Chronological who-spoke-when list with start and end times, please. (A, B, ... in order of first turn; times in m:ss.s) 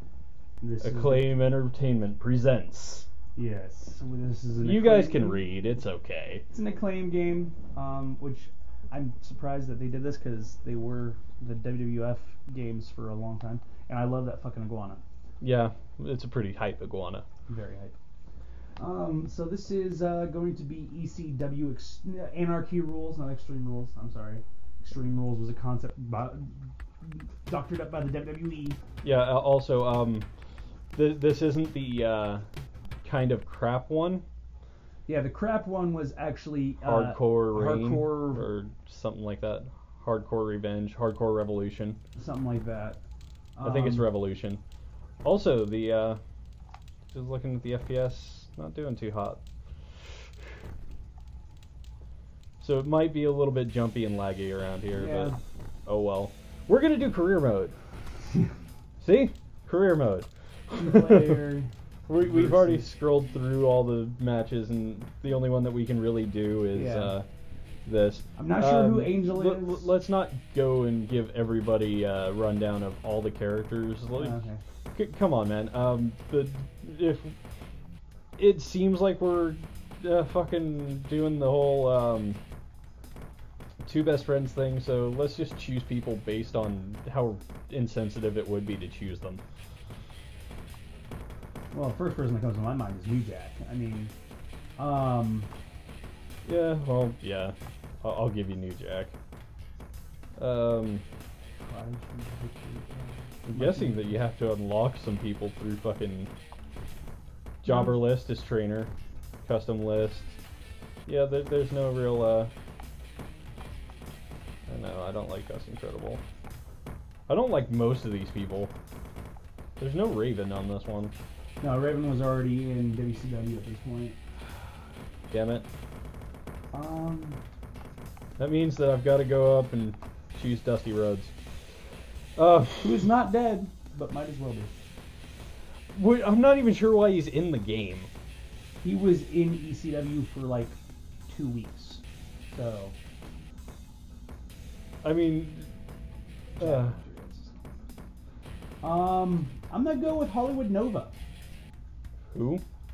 0:00.6-0:01.4 A
0:00.8-0:03.1 B
0:03.4-0:05.4 A
0:04.6-0:06.4 B
0:06.5-0:15.0 A
0:15.4-0:17.2 B
0:17.5-0:17.9 A
0:18.8-0:28.8 A
0:29.0-0:30.3 B
0:30.9-0:32.4 B
0:33.0-0:34.2 B
0:35.1-0:38.4 A
0:36.8-0:42.0 B
0:42.2-0:43.0 A
0:43.6-0:44.1 A
0:43.6-0:44.6 B
0:45.2-0:46.2 B
0:47.1-0:49.4 B
0:52.6-0:55.3 B
0:54.9-0:55.4 A
0:55.8-0:57.7 B
0:59.0-1:01.4 B
1:00.8-1:02.8 A
1:02.1-1:07.3 B
1:06.7-1:07.1 A
1:07.8-1:14.4 B
1:08.4-1:09.9 A
1:14.1-1:14.6 A
1:15.0-1:17.3 B
1:18.4-1:22.4 B
1:23.8-1:29.4 B
1:31.7-1:34.1 A
1:34.8-1:35.5 A
1:36.4-1:39.1 B
1:40.4-1:41.0 B
1:41.6-1:44.1 A
1:43.5-1:46.3 B
1:47.6-1:48.9 B
1:47.7-1:47.9 A
1:49.4-1:50.4 B
1:51.0-1:52.5 B
1:54.7-1:56.2 B
1:57.3-1:58.7 B
1:59.8-2:01.1 B
2:01.6-2:04.2 A
2:05.3-2:05.7 B
2:06.7-2:07.4 A
2:08.4-2:11.3 B
2:12.4-2:13.0 B
2:12.8-2:14.7 A
2:15.9-2:18.1 B
2:18.8-2:20.8 A
2:21.3-2:22.9 A
2:25.0-2:25.7 B
2:26.6-2:27.0 B
2:26.6-2:27.5 A
2:28.8-2:31.1 A
2:32.3-2:32.6 B